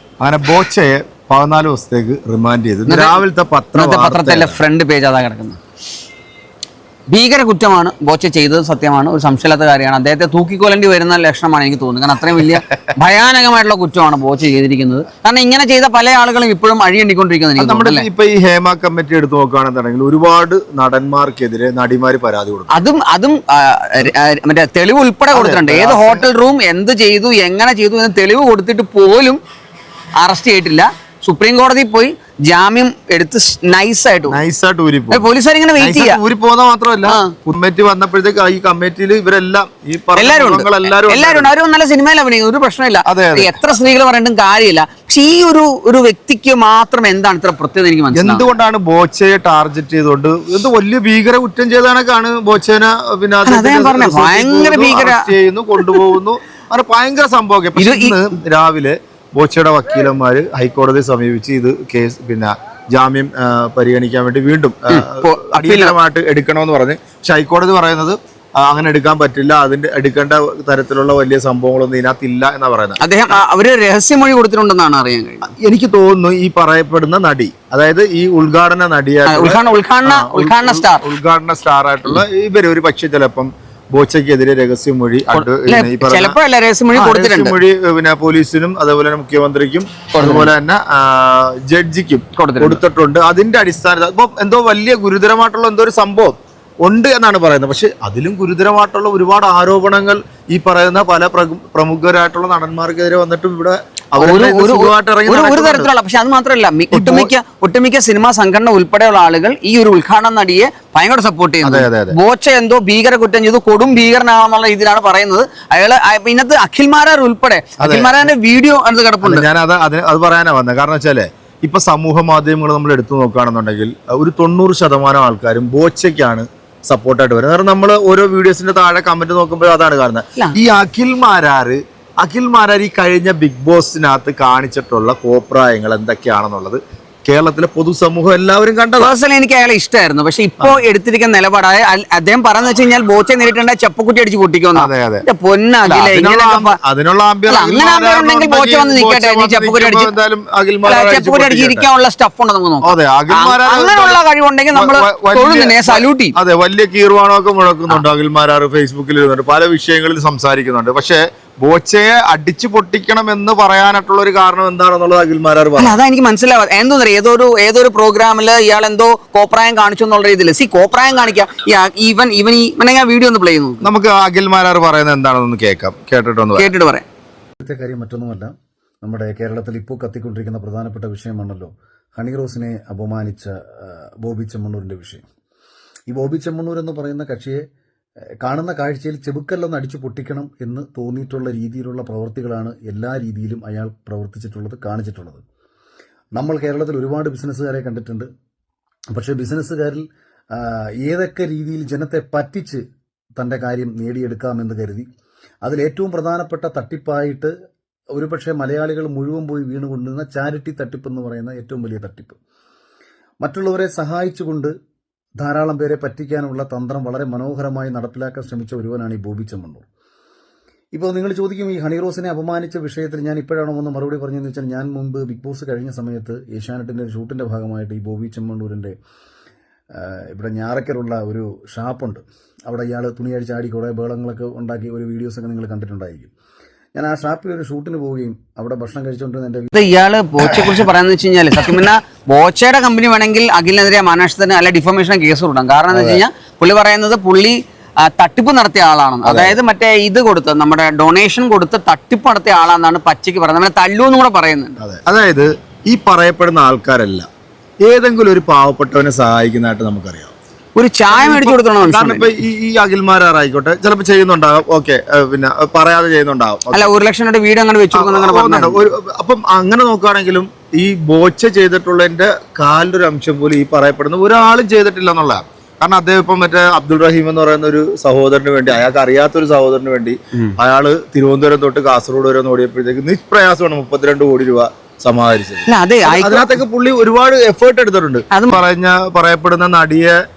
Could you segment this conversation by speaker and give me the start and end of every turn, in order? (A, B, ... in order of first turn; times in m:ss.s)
0:00.2-0:04.6 A
0:02.9-0:03.2 B
0:03.8-0:05.6 B
0:07.1-0:18.0 B
0:17.6-0:22.8 A
0:22.7-0:29.4 B
0:25.3-0:26.3 A
0:30.2-0:34.4 B
0:34.3-0:41.5 A
0:35.1-0:36.2 B
0:37.1-0:37.3 B
0:40.2-0:48.5 B
0:43.1-0:43.5 A
0:48.2-1:13.0 A
0:53.5-0:55.3 B
0:57.8-0:58.2 B
1:04.9-1:06.0 B
1:13.0-1:15.5 B
1:15.5-1:26.4 A
1:19.3-1:21.0 B
1:25.3-1:27.6 B
1:26.9-1:45.9 A
1:30.1-1:30.5 B
1:32.4-1:32.8 B
1:44.2-1:59.5 B
1:46.9-1:47.3 A
1:51.6-1:52.2 A
1:57.8-1:58.3 A
1:59.2-2:19.1 A
2:19.0-2:26.8 B
2:24.8-2:25.2 A
2:25.8-2:31.9 A
2:27.5-2:30.1 B
2:30.9-2:36.4 B
2:32.8-2:34.2 A
2:34.7-2:46.0 A
2:45.8-2:53.8 B
2:53.8-2:56.7 A
2:56.6-2:57.0 B
2:57.6-2:58.5 C
2:59.0-3:05.2 C
3:06.1-3:07.6 C
3:08.4-3:15.4 C
3:16.4-3:18.3 C
3:19.2-3:22.8 C
3:23.4-3:25.1 C
3:25.6-3:27.5 C
3:28.1-3:32.4 C
3:33.4-3:34.7 C
3:35.4-3:39.8 C
3:40.9-3:49.0 C
3:50.0-3:56.3 C
3:57.0-3:59.7 C
3:59.7-4:14.8 B
4:05.9-4:06.2 A
4:09.2-4:09.6 A
4:14.8-4:17.3 A
4:17.8-4:20.4 A
4:20.8-4:22.3 B
4:21.1-4:26.9 A
4:26.7-4:28.8 B
4:27.9-4:50.2 A
4:45.7-4:46.6 B
4:48.3-4:48.6 B